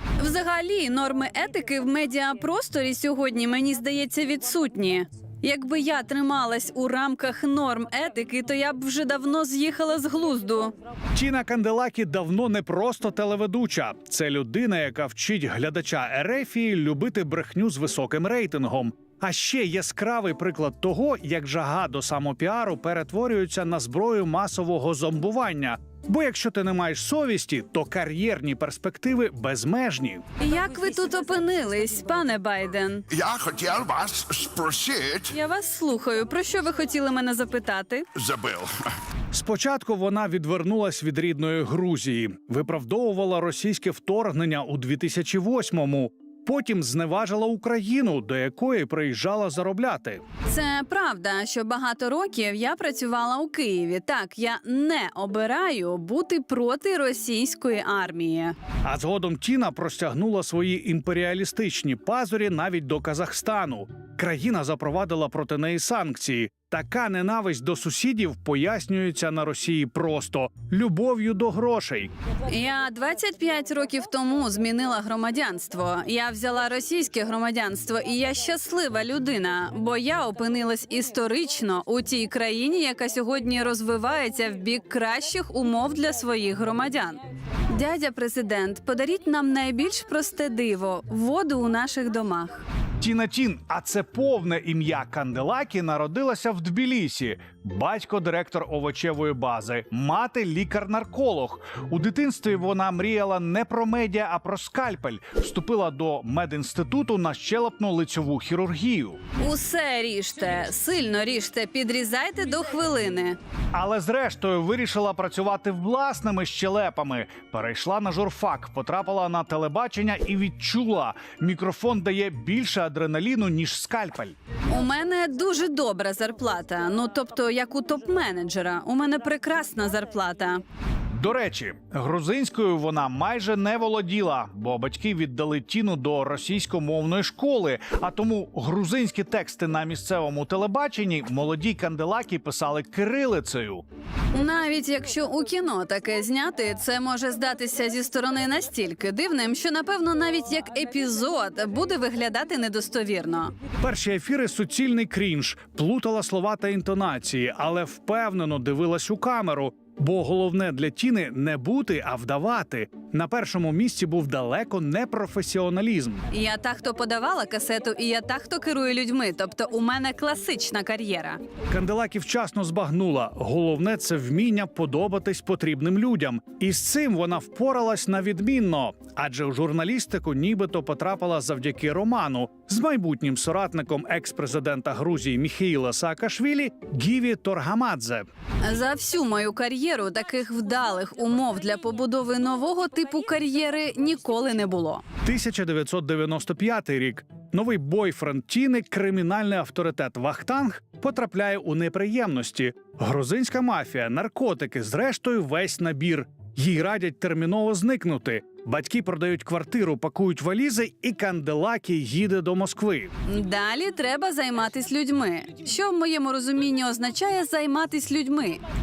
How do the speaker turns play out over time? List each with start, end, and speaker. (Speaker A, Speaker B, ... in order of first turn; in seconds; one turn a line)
Speaker A: 0.2-10.7
Speaker B: 11.1-30.2
Speaker A: 30.4-33.0
Speaker C: 33.1-35.3
Speaker A: 35.3-38.1
Speaker C: 38.2-38.7
Speaker B: 39.3-50.2
Speaker A: 50.5-58.5
Speaker B: 58.8-72.1
Speaker A: 72.5-92.6
Speaker B: 93.0-109.2
Speaker A: 109.4-113.4
Speaker B: 113.7-124.3
Speaker A: 124.7-130.6
Speaker B: 131.1-143.8
Speaker A: 144.3-153.5
Speaker B: 153.8-166.2
Speaker A: 166.3-171.4
Speaker B: 171.7-188.3
Speaker A: 188.6-195.0
Speaker B: 195.2-213.1
Speaker A: 213.2-218.6